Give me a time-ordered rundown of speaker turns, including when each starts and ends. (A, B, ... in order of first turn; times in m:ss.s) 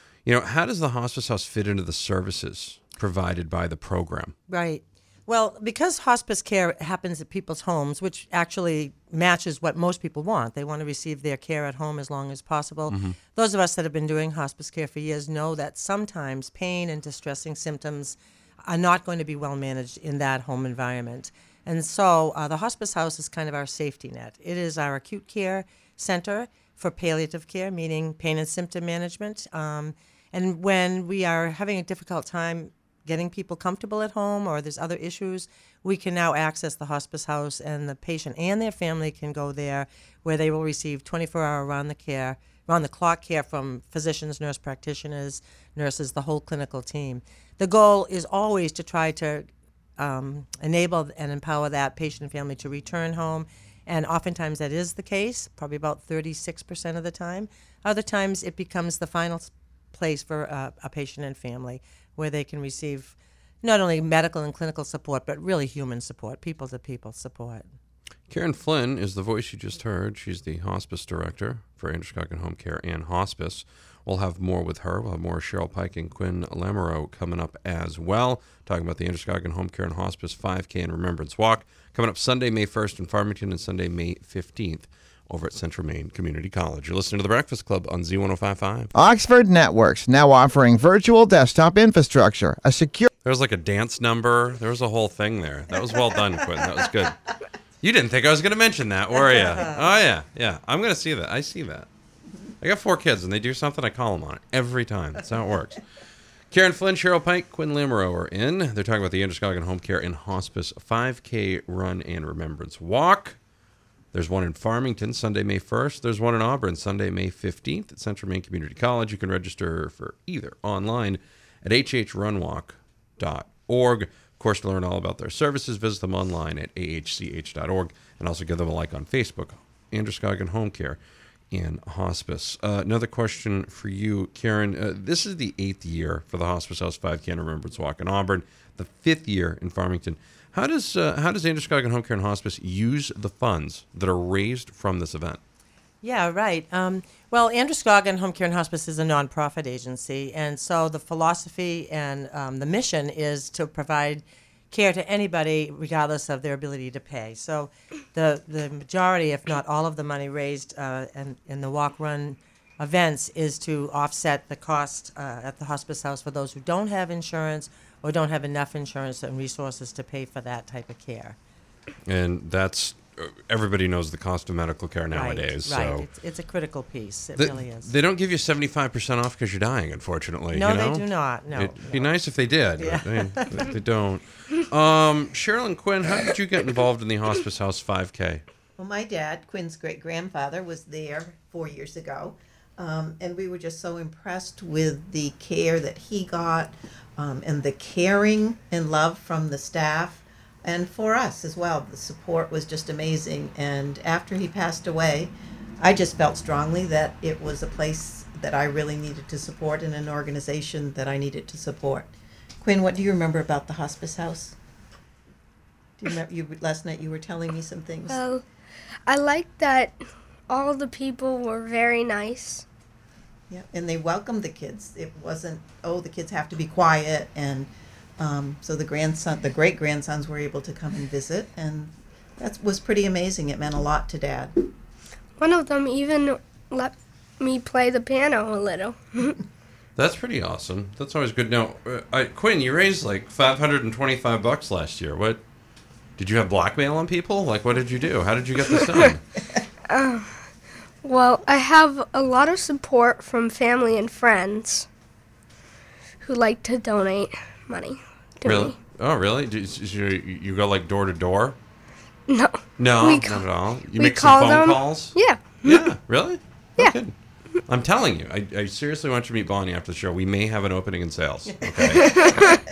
0:00.2-0:04.3 A
0:04.5-1:07.7 B
0:12.9-0:13.2 A
1:08.3-1:28.9 A
1:28.9-1:33.1 C
1:33.2-1:37.2 A
1:37.8-1:41.9 A
1:39.4-1:39.6 B
1:42.6-1:45.8 A
1:46.5-1:53.4 A
1:54.1-2:11.0 A
2:11.5-2:25.4 A
2:26.0-2:51.4 B
2:52.0-2:56.0 A
2:55.1-2:57.9 B
2:57.4-3:08.4 A
3:00.5-3:02.1 B
3:02.8-3:03.7 B
3:08.8-3:32.1 D
3:32.6-3:34.6 D
3:36.0-3:38.2 D
3:38.1-3:38.4 E
3:39.1-3:42.6 E
3:43.5-3:54.5 D
3:55.4-3:59.4 E
4:00.0-4:05.4 A
4:06.2-4:09.2 A
4:09.9-4:10.3 E
4:11.0-4:14.9 E
4:16.2-4:18.7 E
4:18.4-4:21.6 A
4:22.3-4:25.9 E
4:22.8-4:27.1 A
4:27.7-4:32.4 A
4:32.0-4:32.6 E